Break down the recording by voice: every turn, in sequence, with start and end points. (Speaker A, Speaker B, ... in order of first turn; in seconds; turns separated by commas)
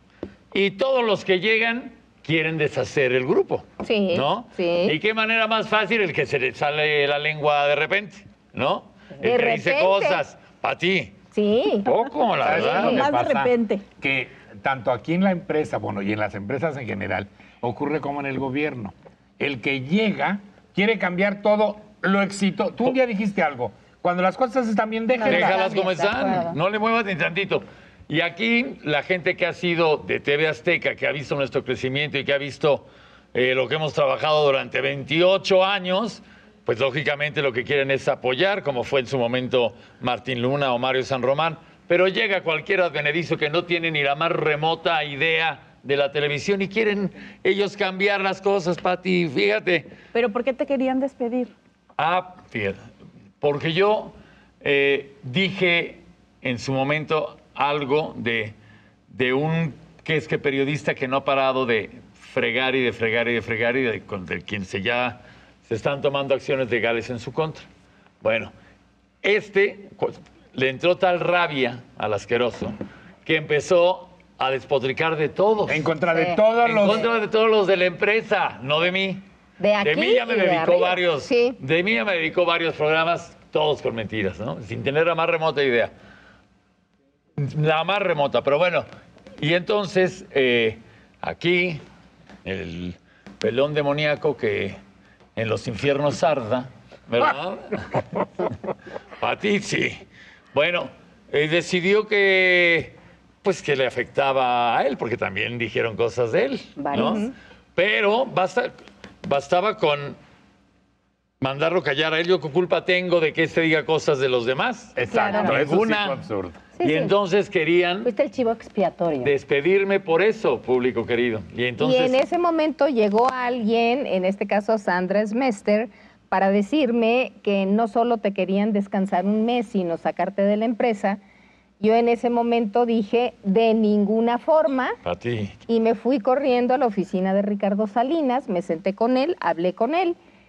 Speaker A: 0.5-11.1, Speaker B: 3.8-5.0, Speaker B: 9.2-10.2, Speaker B: 11.3-11.9, Speaker A: 11.9-13.0, Speaker C: 12.4-25.7, Speaker B: 12.6-13.1, Speaker D: 12.6-13.8, Speaker E: 25.2-26.6, Speaker A: 25.3-49.9, Speaker D: 50.1-51.5, Speaker A: 52.0-52.8, Speaker A: 53.4-58.5, Speaker A: 59.1-67.7, Speaker A: 68.2-68.5, Speaker A: 69.2-75.9, Speaker C: 75.7-77.1, Speaker E: 76.1-76.4, Speaker A: 76.6-79.2, Speaker E: 79.6-81.0, Speaker A: 79.8-85.9, Speaker B: 81.2-81.6, Speaker A: 87.4-88.9, Speaker A: 89.4-91.8, Speaker A: 92.5-94.8, Speaker A: 95.4-98.0, Speaker A: 99.2-100.0, Speaker A: 100.5-107.2, Speaker E: 106.8-107.2, Speaker B: 106.9-107.3, Speaker A: 107.8-110.2, Speaker A: 111.4-116.2, Speaker C: 115.0-116.6, Speaker E: 115.0-115.6, Speaker E: 116.8-117.1, Speaker A: 116.8-118.1, Speaker E: 118.0-119.3, Speaker A: 119.2-122.2, Speaker B: 121.8-131.2, Speaker B: 131.8-135.0, Speaker A: 135.1-135.6, Speaker B: 135.7-140.2